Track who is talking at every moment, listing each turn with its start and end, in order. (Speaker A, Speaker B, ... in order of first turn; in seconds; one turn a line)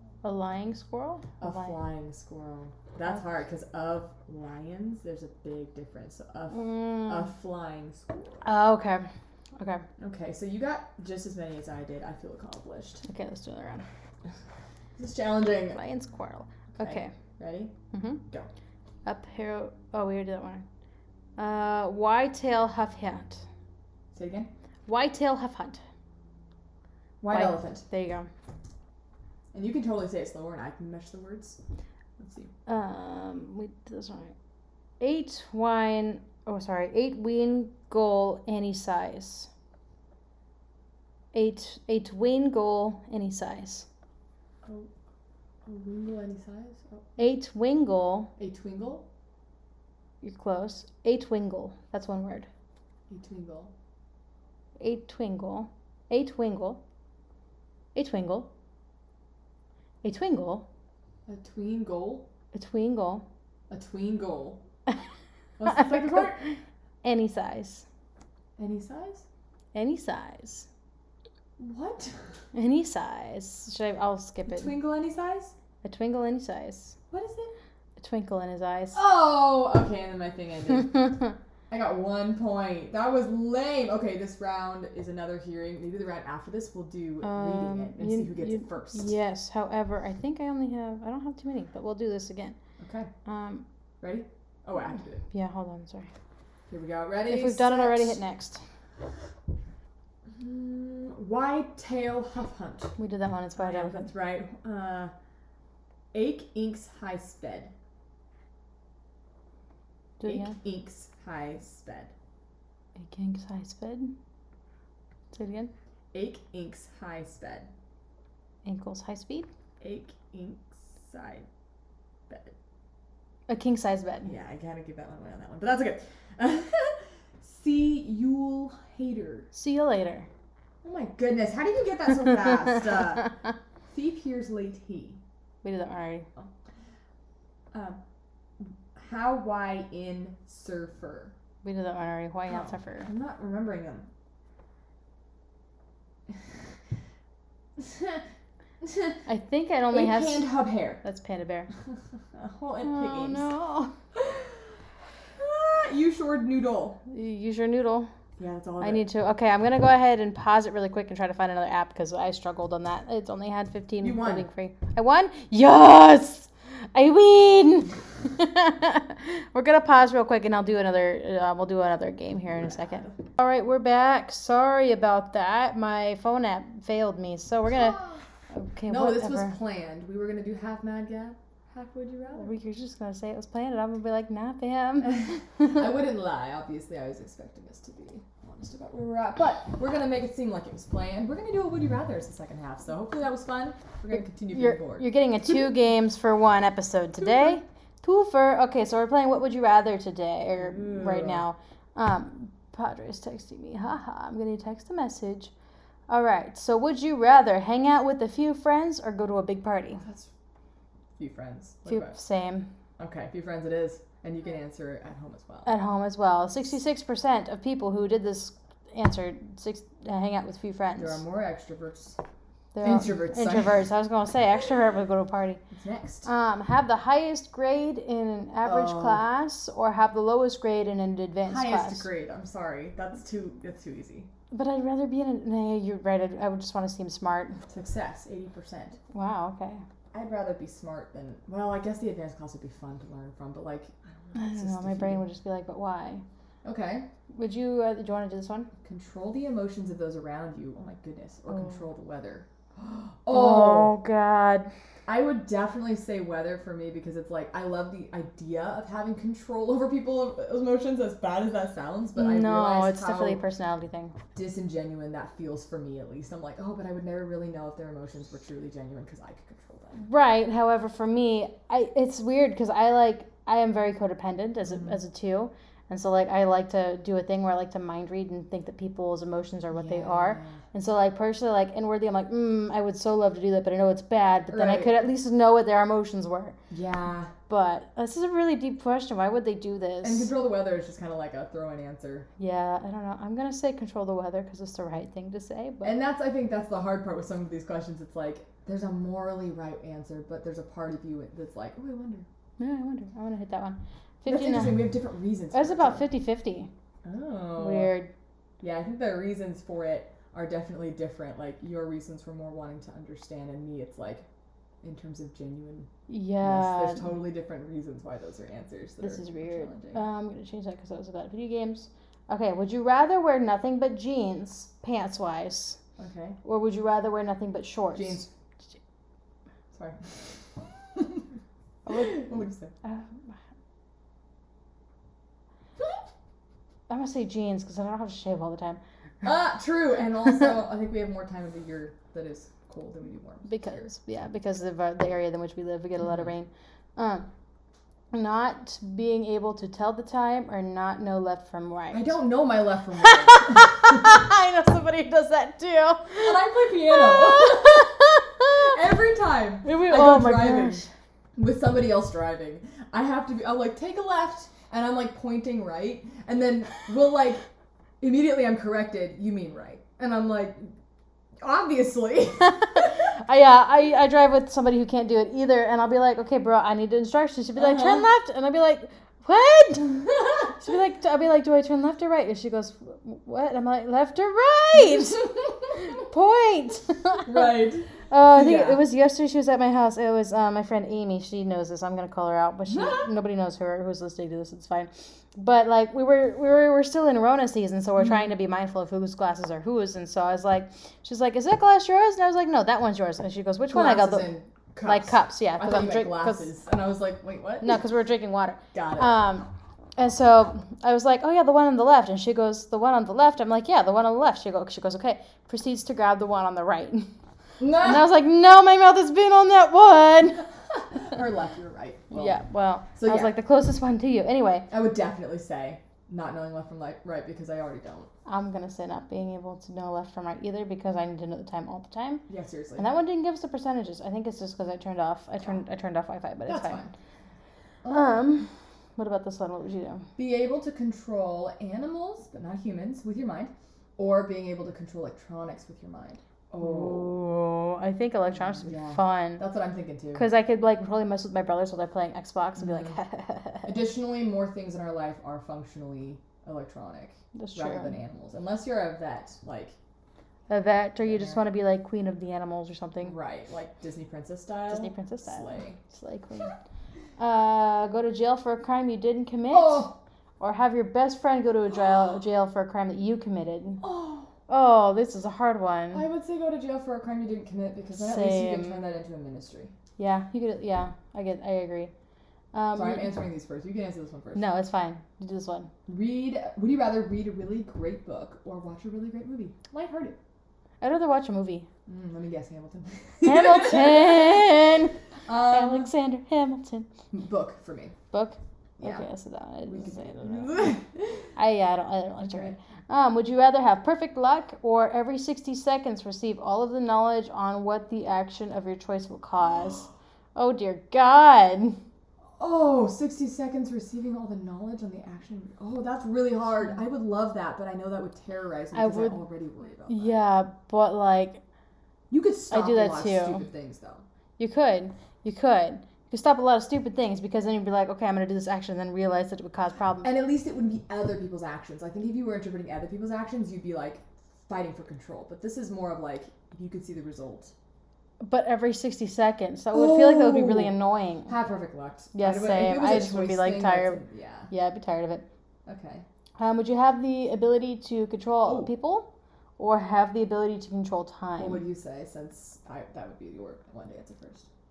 Speaker A: 0.2-1.8
Speaker B: 1.4-8.4
Speaker A: 6.5-7.3
Speaker A: 8.4-9.8
Speaker B: 10.0-13.1
Speaker A: 13.1-13.8
Speaker B: 15.0-15.8
Speaker A: 15.7-17.1
Speaker B: 16.8-17.7
Speaker A: 17.9-18.2
Speaker A: 19.1-20.6
Speaker A: 21.4-23.4
Speaker B: 24.1-24.5
Speaker A: 24.9-25.8
Speaker B: 27.2-27.8
Speaker A: 27.3-28.3
Speaker B: 29.5-31.6
Speaker B: 32.2-32.5
Speaker A: 32.7-34.3
Speaker A: 35.0-39.5
Speaker A: 41.3-43.9
Speaker B: 44.6-44.9
Speaker B: 45.6-47.1
Speaker A: 47.2-48.3
Speaker B: 48.4-49.0
Speaker A: 50.2-52.5
Speaker B: 53.1-53.7
Speaker A: 54.8-56.8
Speaker A: 57.9-58.5
Speaker A: 60.0-60.6
Speaker B: 61.3-62.3
Speaker A: 62.5-63.2
Speaker B: 63.7-64.6
Speaker B: 65.6-66.4
Speaker A: 65.6-67.8
Speaker B: 68.6-69.2
Speaker A: 69.7-70.7
Speaker B: 71.6-72.2
Speaker A: 72.5-74.8
Speaker B: 74.5-75.5
Speaker A: 75.8-77.0
Speaker B: 77.1-77.5
Speaker A: 78.0-79.0
Speaker B: 78.9-80.9
Speaker B: 81.7-89.1
Speaker A: 87.2-92.6
Speaker B: 92.8-93.1
Speaker A: 93.2-93.6
Speaker B: 94.0-95.2
Speaker A: 95.3-96.1
Speaker B: 96.7-98.2
Speaker A: 97.2-98.6
Speaker B: 100.3-103.0
Speaker A: 103.0-104.1
Speaker B: 103.6-105.1
Speaker B: 106.1-107.7
Speaker A: 110.2-110.5
Speaker B: 110.2-112.1
Speaker A: 113.0-114.1
Speaker A: 115.3-115.7
Speaker B: 116.1-117.7
Speaker A: 118.6-119.5
Speaker B: 119.8-121.5
Speaker B: 122.3-122.5
Speaker A: 123.5-124.3
Speaker B: 124.2-129.5
Speaker A: 129.5-130.3
Speaker B: 130.8-133.3
Speaker B: 133.9-135.2
Speaker A: 135.6-136.3
Speaker B: 137.7-138.0
Speaker B: 138.6-141.3
Speaker A: 141.6-143.1
Speaker B: 142.5-144.1
Speaker B: 147.8-148.2
Speaker B: 148.8-149.2
Speaker A: 149.3-150.5
Speaker B: 149.9-151.0
Speaker A: 151.0-151.7
Speaker B: 152.3-153.5
Speaker A: 152.8-153.9
Speaker B: 154.1-154.6
Speaker B: 155.4-157.0
Speaker A: 157.1-158.1
Speaker B: 158.4-159.0
Speaker A: 158.8-179.6
Speaker B: 164.0-164.4
Speaker B: 172.4-173.1
Speaker B: 177.7-178.2
Speaker B: 178.9-182.5
Speaker A: 182.4-185.8
Speaker B: 185.1-195.1
Speaker A: 194.1-205.5
Speaker B: 197.2-197.6
Speaker B: 200.5-201.4
Speaker A: 206.1-210.0
Speaker B: 210.0-210.3
Speaker B: 211.2-212.2
Speaker A: 211.8-212.7
Speaker B: 213.0-215.7
Speaker A: 215.7-221.2
Speaker B: 221.0-222.2
Speaker A: 222.7-225.6
Speaker B: 222.8-223.8
Speaker B: 225.7-226.3
Speaker A: 226.2-232.1
Speaker B: 228.6-229.2
Speaker B: 231.4-234.3
Speaker A: 234.5-237.6
Speaker B: 237.7-239.0
Speaker A: 239.1-239.8
Speaker B: 240.1-245.2
Speaker A: 244.3-246.2
Speaker B: 246.6-247.1
Speaker A: 247.3-248.7
Speaker B: 248.8-252.4
Speaker A: 251.5-251.8
Speaker B: 253.2-253.9
Speaker A: 253.3-254.7
Speaker B: 255.1-263.4
Speaker A: 262.1-264.1
Speaker B: 264.3-270.1
Speaker A: 270.0-286.6
Speaker B: 274.6-274.9
Speaker B: 279.7-280.6
Speaker B: 284.5-285.0
Speaker B: 286.7-287.3
Speaker A: 287.5-290.3
Speaker B: 290.0-292.3
Speaker A: 292.4-295.9
Speaker B: 295.8-302.2
Speaker A: 302.6-304.9
Speaker B: 304.3-306.1
Speaker A: 305.5-306.7
Speaker B: 307.0-307.9
Speaker A: 307.6-308.1
Speaker B: 308.6-314.2
Speaker B: 314.8-315.9
Speaker A: 316.1-317.1
Speaker B: 316.4-320.0
Speaker A: 319.0-325.8
Speaker B: 326.0-326.4
Speaker A: 326.4-328.2
Speaker B: 327.9-328.3
Speaker B: 329.7-331.2
Speaker A: 331.9-333.3
Speaker B: 331.9-332.7
Speaker A: 336.9-338.8
Speaker B: 339.2-343.9
Speaker A: 343.4-347.3
Speaker A: 348.1-352.1
Speaker B: 351.9-353.8
Speaker A: 352.9-358.4
Speaker B: 356.2-367.4
Speaker A: 359.6-360.9
Speaker B: 368.0-370.7
Speaker B: 371.4-372.9
Speaker A: 372.4-387.5
Speaker B: 377.6-378.1
Speaker B: 387.2-388.8
Speaker A: 388.1-404.3
Speaker B: 392.7-393.1
Speaker B: 403.7-407.8
Speaker A: 404.8-406.5
Speaker A: 407.6-417.1
Speaker B: 408.7-409.2
Speaker B: 417.6-418.1
Speaker A: 417.7-420.5
Speaker B: 420.9-422.4
Speaker A: 422.1-424.7
Speaker B: 422.9-423.3
Speaker B: 424.7-428.1
Speaker A: 428.2-432.2
Speaker B: 432.3-432.9
Speaker A: 432.8-436.8
Speaker B: 436.5-436.9
Speaker B: 437.8-438.2
Speaker A: 437.9-440.0
Speaker B: 440.2-447.2
Speaker A: 446.6-449.4
Speaker B: 448.4-450.3
Speaker A: 450.1-453.8
Speaker B: 452.6-453.0
Speaker B: 453.6-459.8
Speaker A: 457.4-458.0
Speaker A: 460.5-463.1
Speaker B: 461.0-461.4
Speaker B: 463.0-465.8
Speaker A: 464.7-466.5
Speaker A: 467.2-469.9
Speaker B: 469.5-470.0
Speaker A: 470.4-473.8
Speaker B: 473.8-474.3
Speaker A: 474.5-476.0
Speaker B: 475.9-479.7
Speaker A: 477.9-479.0
Speaker A: 480.0-481.9
Speaker A: 482.5-483.1
Speaker B: 482.7-484.5
Speaker A: 484.3-485.7
Speaker B: 485.9-490.1
Speaker A: 490.8-491.7
Speaker B: 491.9-494.5
Speaker A: 493.2-496.9
Speaker B: 495.2-495.9
Speaker B: 497.1-497.9
Speaker A: 498.1-500.8
Speaker B: 498.8-499.1
Speaker B: 499.6-501.3
Speaker A: 501.4-511.8
Speaker B: 502.2-502.5
Speaker B: 512.4-520.1
Speaker A: 518.7-519.2
Speaker A: 519.9-521.4
Speaker B: 522.1-524.0
Speaker A: 522.5-523.5
Speaker A: 524.4-530.1
Speaker B: 530.0-537.5
Speaker A: 538.2-541.4
Speaker B: 539.7-540.7
Speaker B: 541.3-544.5
Speaker A: 542.1-545.2
Speaker B: 545.6-546.0
Speaker A: 546.4-551.6
Speaker B: 548.5-548.7
Speaker B: 551.4-554.5